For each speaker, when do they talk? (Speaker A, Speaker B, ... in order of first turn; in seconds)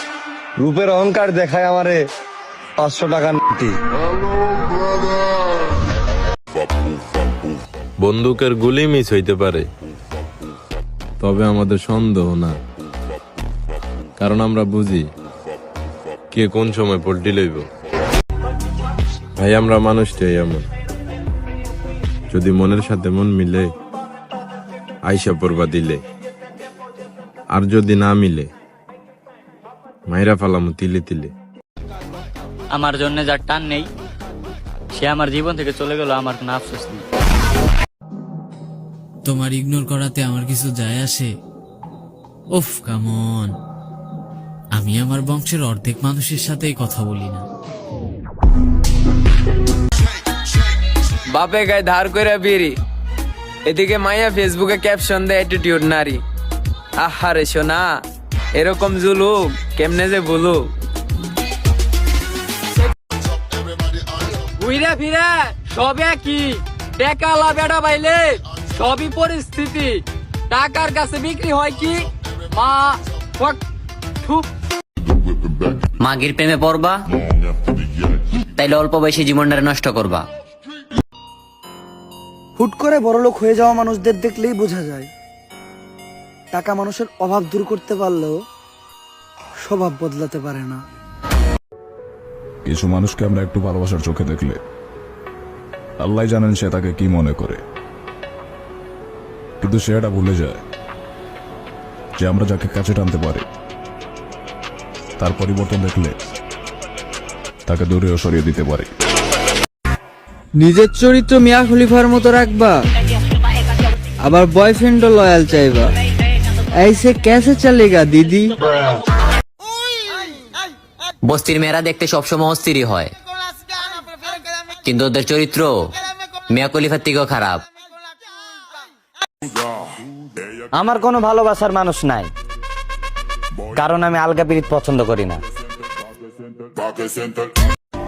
Speaker A: 0.6-2.0, 2.8-3.7
Speaker B: 8.0-9.7, 11.2-12.6, 14.2-15.1, 16.3-17.7, 19.4-20.6, 22.3-23.7, 25.1-26.0, 27.5-28.5, 30.1-31.3
Speaker C: 32.7-33.9, 34.9-37.0
Speaker D: 39.2-41.3, 42.5-43.5, 44.8-47.4
Speaker E: 51.3-52.8, 53.6-56.2, 57.0-58.0, 58.5-60.7, 64.6-73.6
Speaker F: 76.0-77.0, 78.5-80.2, 121.2-123.1, 124.8-125.9, 126.5-127.6
Speaker G: 82.6-85.1, 86.5-88.4, 89.6-90.8
Speaker H: 92.7-94.6, 96.0-97.6, 99.6-100.6, 102.2-103.4, 105.2-106.1, 107.7-108.9
Speaker I: 110.6-112.8, 114.3-115.9, 116.8-118.5
Speaker J: 130.7-132.3, 133.7-135.4